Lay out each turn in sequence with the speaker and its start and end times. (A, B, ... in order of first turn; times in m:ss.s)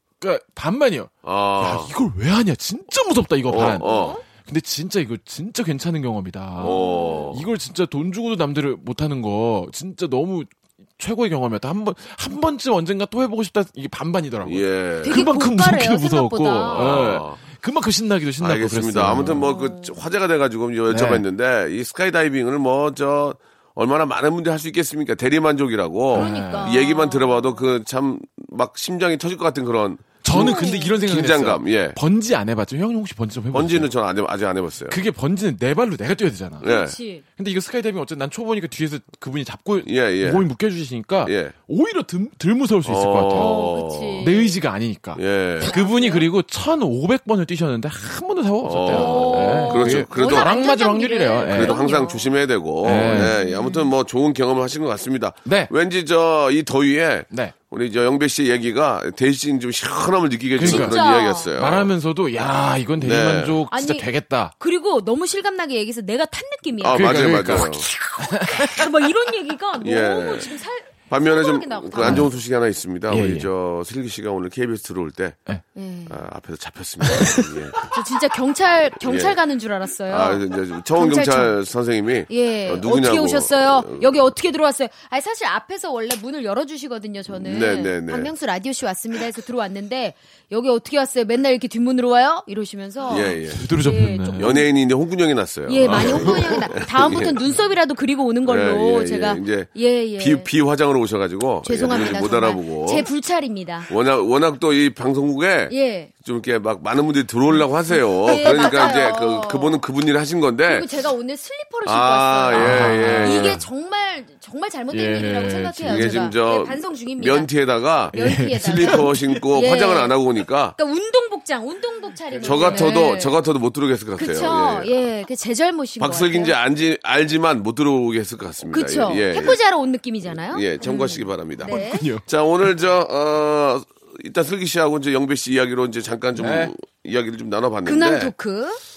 0:00.2-0:19.4 A
0:01.2-0:01.9 B
0:03.5-0:04.2 B
0:03.8-0:04.2 C
0:06.6-0:07.5 B
0:06.6-0:07.3 C
0:14.4-0:15.2 B
0:15.0-0:17.1 C
0:16.7-0:17.4 B
0:18.4-0:32.0 B
0:19.4-0:20.0 C
0:20.9-0:21.2 A
0:26.1-0:26.8 A
0:26.1-0:27.5 C
0:30.2-0:33.9 A
0:30.3-0:30.9 C
0:33.5-0:35.0 B
0:34.9-0:36.7 A
0:36.6-0:37.0 B
0:36.6-0:37.2 C
0:37.4-0:43.6 A
0:39.8-0:40.5 B
0:41.2-0:41.5 B
0:42.8-0:44.2 B
0:43.3-0:44.6 C
0:44.2-0:51.9 A
0:45.2-0:45.7 B
0:45.6-0:46.3 C
0:48.6-0:50.6 B
0:48.9-0:52.3 C
0:51.5-1:01.9 B
0:52.8-0:53.3 A
0:52.9-0:53.9 C
0:55.4-0:55.7 A
1:00.6-1:01.0 A
1:00.6-1:01.5 C
1:01.5-1:04.5 A
1:03.0-1:03.6 B
1:03.7-1:04.1 C
1:04.6-1:07.6 C
1:06.8-1:07.8 B
1:06.9-1:08.9 A
1:08.2-1:12.3 C
1:09.8-1:10.6 B
1:11.1-1:15.4 B
1:12.0-1:12.3 A
1:13.1-1:13.5 A
1:15.8-1:16.2 C
1:16.1-1:17.9 B
1:17.0-1:17.5 A
1:17.9-1:20.4 C
1:19.0-1:19.4 B
1:20.1-1:24.1 B
1:20.9-1:21.5 C
1:22.3-1:34.7 C
1:27.3-1:28.3 B
1:33.1-1:33.6 B
1:33.5-1:34.6 A
1:34.4-1:37.4 B
1:35.7-1:40.5 C
1:35.8-1:36.7 A
1:38.4-1:43.0 B
1:41.6-1:43.9 C
1:43.9-1:50.9 B
1:45.7-1:46.1 C
1:48.2-1:49.8 C
1:48.4-1:48.7 A
1:50.6-1:57.5 C
1:51.8-1:53.6 B
1:52.5-1:53.6 A
1:54.9-1:56.3 A
1:55.9-2:00.7 B
1:58.1-1:59.2 A
1:58.1-2:00.2 C
2:00.8-2:03.4 C
2:02.3-2:03.0 A
2:02.4-2:04.9 B
2:04.2-2:06.6 C
2:06.0-2:09.6 B
2:08.7-2:12.1 C
2:10.3-2:18.3 B
2:11.6-2:12.2 A
2:16.4-2:16.7 A
2:17.8-2:18.8 C